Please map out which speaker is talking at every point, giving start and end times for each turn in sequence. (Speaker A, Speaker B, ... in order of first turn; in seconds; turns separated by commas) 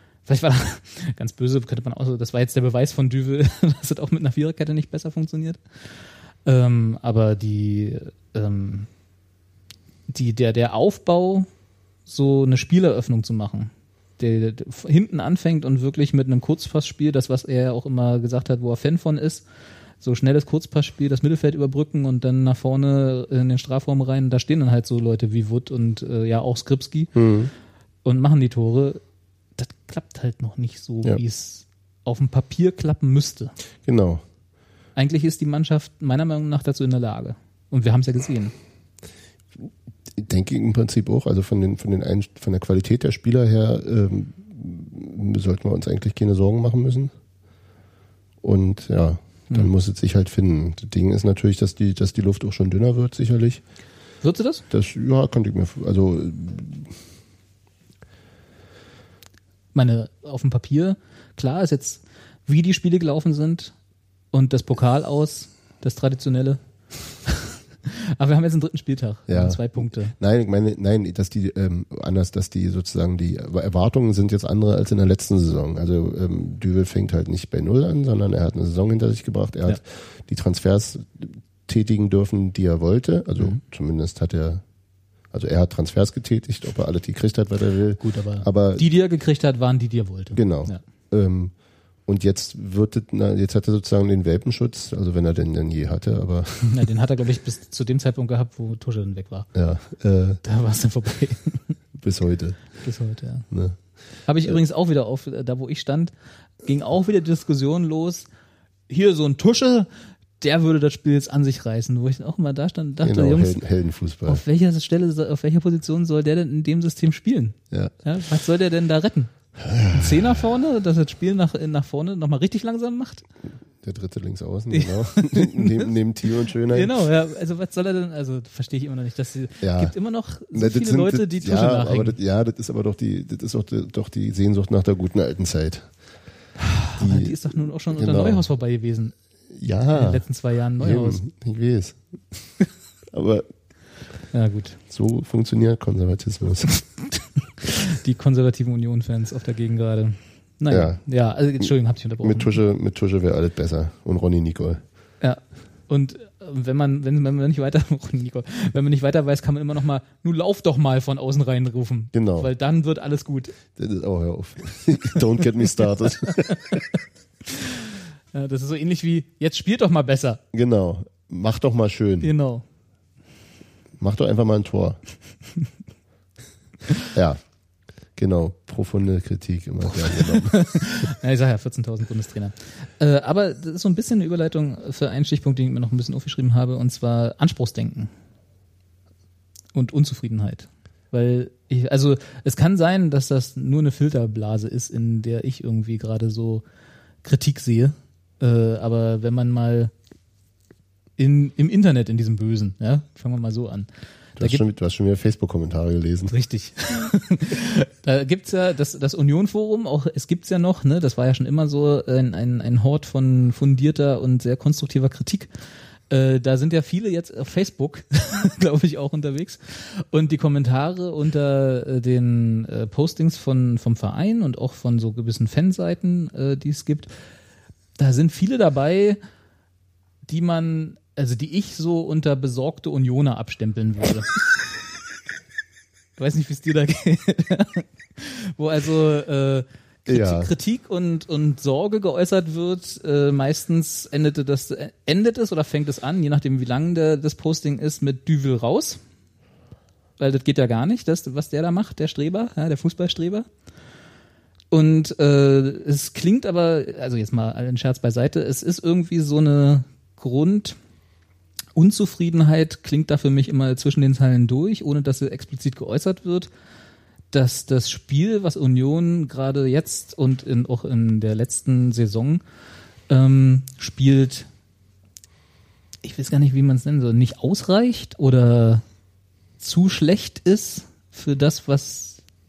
Speaker A: 0.2-5.6, Speaker A: 6.4-8.9, Speaker A: 10.1-11.5, Speaker A: 12.1-19.4, Speaker A: 20.0-27.1, Speaker B: 27.1-27.5, Speaker A: 28.0-29.0, Speaker A: 29.6-33.5, Speaker B: 33.9-34.2, Speaker A: 35.0-38.5, Speaker B: 39.6-47.1, Speaker B: 48.4-53.6, Speaker A: 54.2-54.6, Speaker B: 54.7-56.9, Speaker A: 59.7-63.7, Speaker A: 64.3-66.6, Speaker A: 67.2-70.1, Speaker B: 69.3-84.6, Speaker B: 85.3-88.8, Speaker A: 88.0-90.8, Speaker B: 90.3-91.5, Speaker B: 92.0-96.8, Speaker A: 96.7-99.5, Speaker B: 99.5-100.4, Speaker A: 100.4-101.7, Speaker B: 102.0-102.8, Speaker A: 102.8-103.5, Speaker B: 103.5-103.8, Speaker A: 104.2-106.1, Speaker A: 106.6-108.3, Speaker A: 108.9-109.9, Speaker A: 110.4-113.6, Speaker B: 113.0-114.4, Speaker A: 114.2-123.2, Speaker B: 119.6-120.3, Speaker B: 123.8-127.0, Speaker A: 124.7-125.9, Speaker A: 126.7-132.2, Speaker B: 129.6-129.9, Speaker B: 130.5-135.9, Speaker A: 136.8-139.2, Speaker B: 137.0-137.4, Speaker B: 137.9-138.4, Speaker B: 139.5-140.3, Speaker A: 139.9-141.2, Speaker B: 140.8-142.1, Speaker B: 143.1-143.5, Speaker A: 144.3-144.8, Speaker B: 144.9-146.7, Speaker A: 147.1-152.6, Speaker B: 150.7-151.0, Speaker B: 152.2-154.8, Speaker A: 155.2-163.6, Speaker B: 162.1-162.5, Speaker B: 163.7-166.6, Speaker A: 166.3-166.9, Speaker A: 167.5-167.7, Speaker A: 168.3-170.4, Speaker B: 170.5-172.3, Speaker A: 172.2-172.6, Speaker B: 174.0-175.0, Speaker B: 177.1-177.4, Speaker B: 178.2-180.8, Speaker A: 180.1-188.1, Speaker A: 189.7-196.6, Speaker A: 197.2-199.9, Speaker A: 201.2-204.6, Speaker B: 204.4-206.3, Speaker A: 206.3-215.5, Speaker A: 216.1-227.1, Speaker A: 228.0-229.2, Speaker A: 230.2-234.4, Speaker A: 236.2-249.0, Speaker B: 240.1-240.5, Speaker A: 250.2-253.5, Speaker A: 254.7-260.8, Speaker A: 261.8-266.5, Speaker A: 267.3-272.4, Speaker A: 273.1-274.5, Speaker A: 276.0-278.8, Speaker A: 279.6-282.2